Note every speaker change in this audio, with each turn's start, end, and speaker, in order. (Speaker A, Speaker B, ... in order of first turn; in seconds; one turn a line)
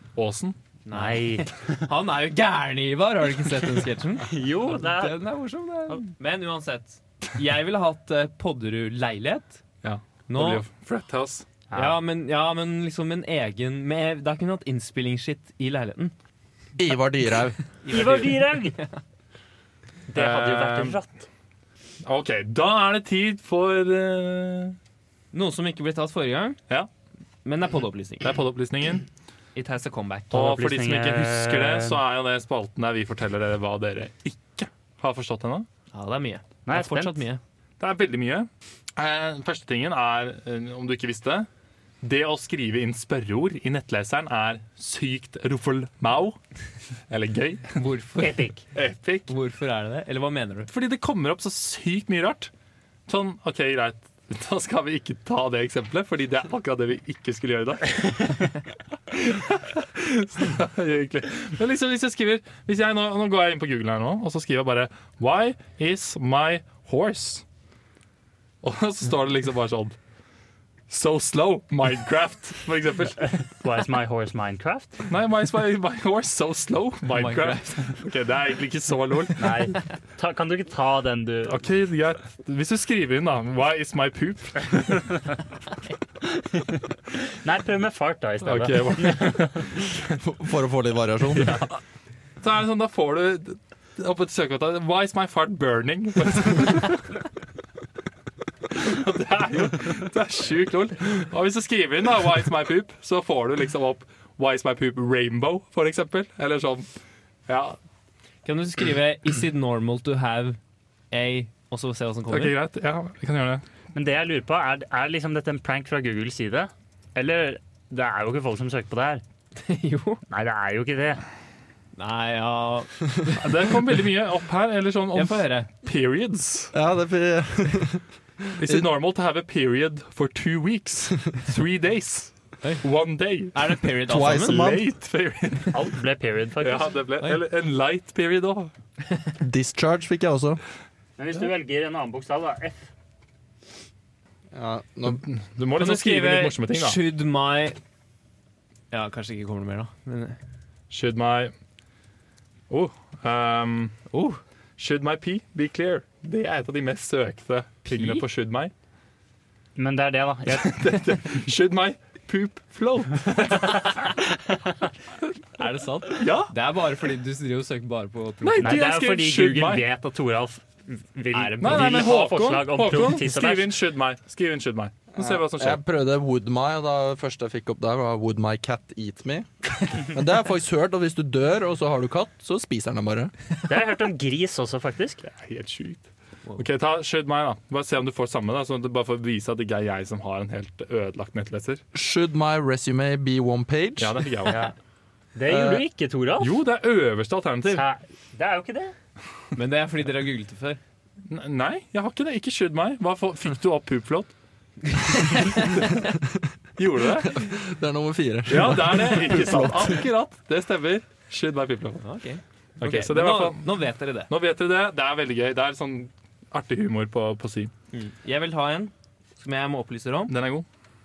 Speaker A: 0.2-0.6
Speaker B: 0.9-1.9
Speaker C: 0.9-9.6
Speaker B: 4.2-5.2
Speaker A: 9.8-11.5
Speaker C: 10.3-10.7
Speaker B: 11.7-12.0
Speaker C: 11.7-16.1
Speaker D: 16.8-17.6
Speaker C: 17.8-19.0
Speaker B: 17.9-18.8
Speaker B: 20.1-21.2
Speaker A: 20.1-21.0
Speaker A: 22.1-24.8
Speaker C: 25.3-26.6
Speaker C: 27.4-28.3
Speaker A: 28.2-29.1
Speaker C: 29.6-30.3
Speaker A: 30.3-35.7
Speaker B: 30.3-32.0
Speaker C: 35.9-37.4
Speaker B: 36.7-37.2
Speaker A: 37.8-41.5
Speaker A: 42.0-46.4
Speaker A: 47.1-47.8
Speaker C: 47.8-48.5
Speaker B: 48.2-48.6
Speaker A: 48.7-49.3
Speaker C: 49.3-50.7
Speaker A: 50.7-52.5
Speaker A: 53.1-58.6
Speaker A: 59.1-67.5
Speaker A: 68.6-70.0
Speaker A: 70.9-73.3
Speaker B: 73.3-75.0
Speaker A: 75.1-79.7
Speaker C: 77.1-78.0
Speaker B: 79.4-81.6
Speaker A: 81.5-85.2
Speaker B: 86.4-89.5
Speaker A: 88.4-90.2
Speaker D: 90.2-91.5
Speaker A: 92.4-97.2
Speaker A: 98.7-106.9
Speaker A: 107.5-107.8
Speaker C: 108.5-110.6
Speaker C: 111.1-112.5
Speaker A: 112.3-113.6
Speaker B: 113.9-119.2
Speaker C: 119.6-120.2
Speaker B: 120.3-121.2
Speaker C: 122.0-123.7
Speaker A: 123.4-126.7
Speaker C: 125.1-125.7
Speaker D: 126.7-128.0
Speaker A: 128.6-133.7
Speaker C: 133.5-134.6
Speaker D: 134.1-134.9
Speaker A: 134.4-135.9
Speaker B: 135.7-136.9
Speaker A: 136.6-138.7
Speaker D: 139.4-140.6
Speaker B: 141.2-142.9
Speaker D: 144.5-145.2
Speaker A: 145.1-147.0
Speaker C: 145.8-147.8
Speaker C: 148.9-150.4
Speaker A: 150.9-151.5
Speaker A: 152.7-154.0
Speaker C: 154.1-154.4
Speaker A: 154.8-158.7
Speaker C: 157.9-158.2
Speaker B: 159.8-160.8
Speaker A: 160.5-164.1
Speaker B: 163.5-164.7
Speaker C: 165.6-168.8
Speaker A: 166.2-166.5
Speaker A: 168.4-169.8
Speaker B: 168.6-173.8
Speaker C: 171.3-172.1
Speaker A: 171.6-175.8
Speaker D: 175.1-183.3
Speaker B: 183.7-185.2
Speaker A: 185.2-191.8
Speaker D: 191.9-194.2
Speaker A: 194.0-194.7
Speaker B: 194.5-194.8
Speaker B: 195.3-196.6
Speaker A: 195.5-195.8
Speaker A: 196.4-197.8
Speaker B: 197.7-198.9
Speaker C: 199.6-200.8
Speaker A: 201.3-204.3
Speaker C: 205.0-205.7
Speaker A: 205.2-206.0
Speaker A: 206.8-207.5
Speaker D: 207.2-210.0
Speaker A: 208.5-212.0
Speaker C: 212.0-214.3
Speaker A: 212.8-217.7
Speaker C: 217.9-220.3
Speaker A: 220.3-220.7